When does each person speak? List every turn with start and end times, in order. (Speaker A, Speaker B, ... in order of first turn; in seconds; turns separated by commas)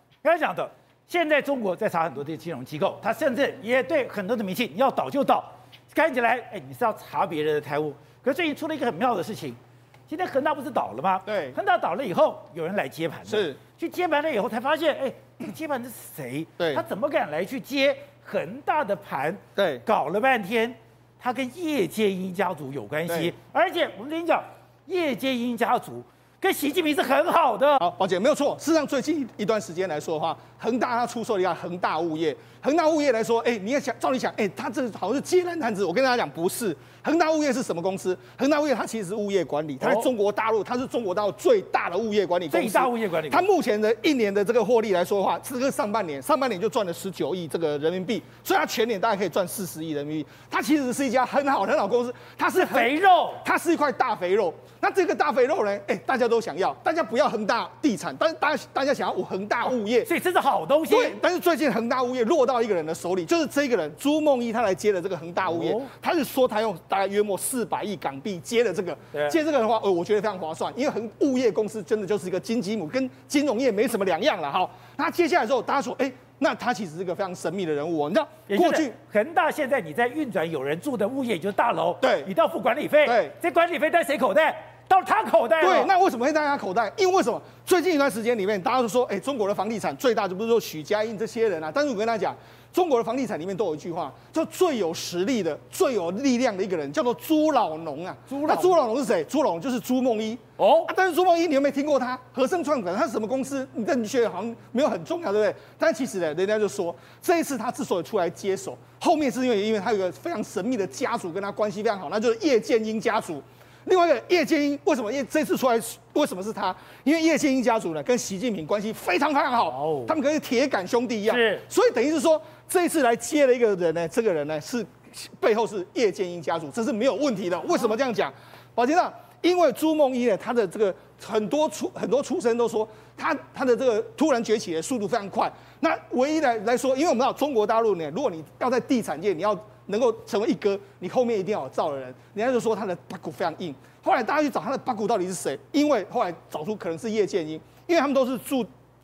Speaker A: 0.2-27.8, Speaker B: 11.2-11.6, Speaker B: 13.3-13.6, Speaker B: 19.6-19.8, Speaker B: 23.1-23.3, Speaker B: 27.8-60.1, Speaker A: 39.8-40.1, Speaker A: 42.5-43.5, Speaker A: 52.5-53.4, Speaker A: 60.0-61.1, Speaker B: 60.9-78.9, Speaker A: 65.5-65.9, Speaker A: 78.5-85.9, Speaker B: 82.0-82.3, Speaker B: 83.0-83.3, Speaker B: 85.6-148.7, Speaker A: 98.3-98.7, Speaker A: 100.6-100.9, Speaker A: 119.8-120.1, Speaker A: 121.3-121.6